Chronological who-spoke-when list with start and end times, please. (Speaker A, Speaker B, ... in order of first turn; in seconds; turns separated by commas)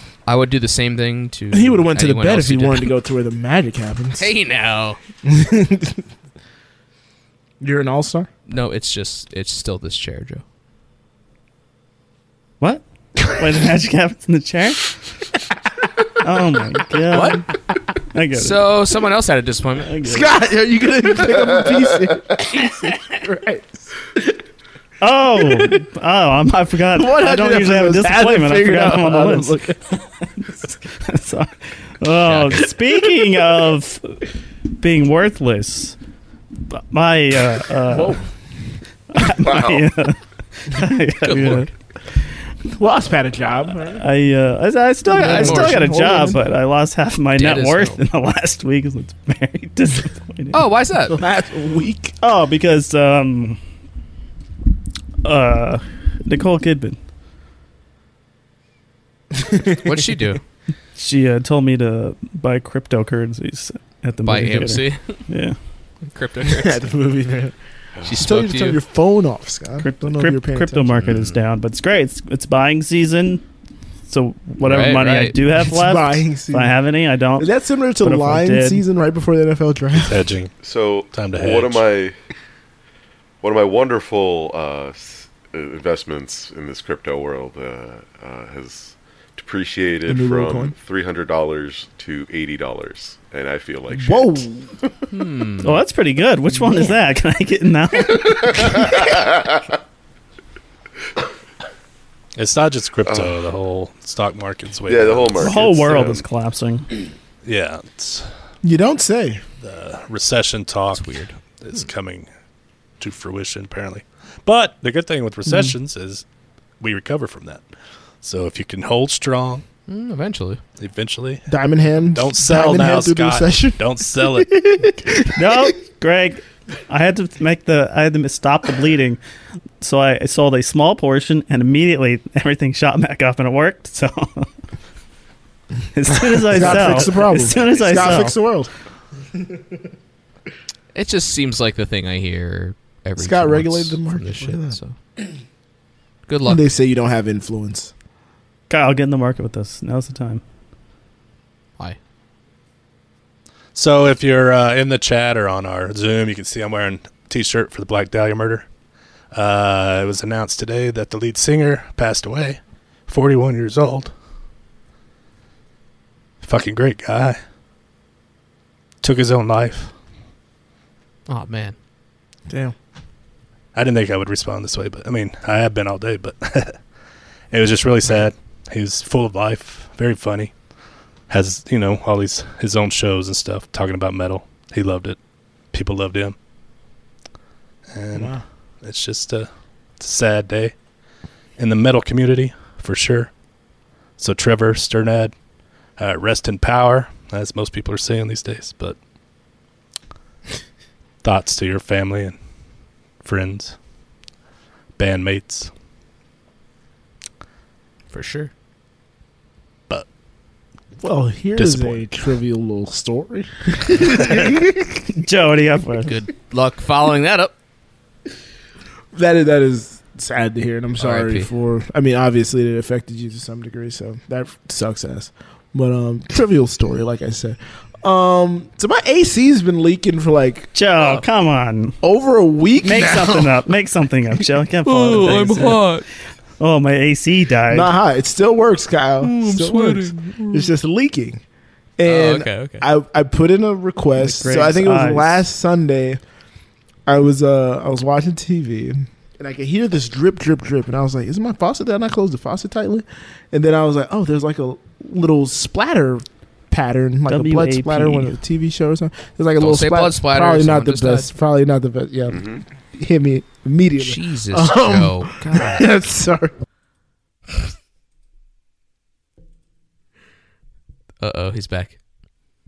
Speaker A: 0.2-2.9, Speaker B: 1.5-4.3, Speaker A: 4.2-5.0, Speaker B: 5.2-6.0, Speaker B: 7.6-8.3, Speaker A: 8.5-10.4, Speaker C: 12.6-14.9, Speaker C: 16.2-17.5, Speaker A: 17.1-17.4, Speaker C: 18.1-18.6, Speaker A: 18.3-19.9, Speaker C: 19.9-20.3, Speaker B: 20.0-24.4, Speaker C: 25.0-34.2, Speaker B: 25.4-25.8, Speaker B: 26.9-29.8, Speaker A: 32.2-32.7, Speaker C: 34.8-36.0, Speaker C: 36.7-38.2, Speaker C: 39.1-41.7, Speaker D: 39.4-39.9, Speaker A: 41.2-41.7, Speaker B: 42.7-44.0, Speaker C: 44.0-50.6, Speaker B: 45.1-46.4, Speaker A: 45.1-45.8, Speaker A: 47.3-48.0, Speaker A: 50.5-51.2, Speaker B: 51.1-52.1, Speaker C: 52.2-53.6, Speaker C: 55.2-57.0, Speaker B: 59.3-60.1, Speaker A: 59.8-60.4, Speaker C: 61.0-65.5, Speaker A: 64.2-65.2, Speaker A: 66.0-66.9, Speaker B: 66.4-67.5, Speaker A: 68.0-68.8, Speaker B: 68.1-70.9, Speaker C: 69.8-73.4, Speaker A: 71.0-71.4, Speaker C: 74.1-77.5, Speaker A: 74.6-75.4, Speaker B: 75.6-76.8, Speaker B: 77.4-80.2, Speaker C: 78.0-78.8, Speaker E: 79.9-80.5, Speaker D: 80.6-82.1, Speaker E: 81.1-81.8, Speaker D: 83.4-94.5, Speaker B: 90.1-90.7, Speaker B: 93.9-94.8, Speaker A: 95.1-95.8, Speaker C: 95.6-99.0, Speaker D: 98.9-99.5, Speaker E: 102.4-105.6, Speaker D: 103.0-103.3, Speaker D: 104.9-106.2, Speaker C: 105.4-106.9, Speaker E: 107.4-108.3, Speaker B: 108.6-109.4, Speaker E: 109.6-111.0, Speaker A: 110.9-111.9, Speaker E: 111.6-112.3, Speaker E: 113.0-116.2, Speaker E: 116.8-117.6, Speaker E: 118.2-119.6, Speaker A: 119.9-120.6, Speaker E: 120.8-121.5, Speaker B: 121.5-125.7, Speaker E: 122.1-124.7, Speaker C: 125.3-129.2, Speaker C: 129.8-134.5, Speaker C: 135.9-138.4, Speaker B: 136.4-138.7, Speaker A: 140.9-144.9, Speaker B: 143.2-144.8, Speaker A: 146.3-146.6, Speaker B: 146.4-147.9, Speaker C: 148.7-150.4, Speaker E: 153.7-158.7, Speaker E: 159.3-164.1, Speaker E: 166.4-167.4, Speaker E: 169.0-169.9, Speaker A: 171.3-171.8, Speaker B: 172.5-172.7, Speaker E: 173.7-176.8, Speaker E: 177.5-180.5, Speaker E: 181.3-185.2, Speaker E: 185.7-186.4, Speaker E: 187.9-190.7, Speaker B: 188.1-188.4, Speaker E: 191.6-193.3, Speaker E: 194.2-195.3, Speaker E: 196.0-199.0, Speaker E: 201.2-202.4, Speaker E: 203.2-203.7, Speaker E: 205.0-205.7, Speaker A: 208.1-208.5, Speaker B: 211.0-214.9, Speaker E: 211.6-212.0, Speaker C: 215.2-216.1, Speaker A: 216.1-217.5, Speaker B: 219.1-230.7, Speaker A: 221.0-221.5, Speaker C: 230.7-232.0, Speaker B: 232.0-233.6, Speaker C: 232.8-235.9, Speaker A: 234.8-236.1, Speaker C: 236.6-237.9, Speaker B: 237.7-241.4, Speaker A: 239.2-240.7, Speaker B: 242.0-246.2, Speaker A: 242.1-242.9, Speaker C: 244.2-245.4, Speaker B: 247.1-266.5, Speaker C: 257.3-258.4, Speaker A: 259.6-261.3, Speaker D: 262.3-262.6, Speaker A: 264.0-265.8, Speaker A: 271.2-272.0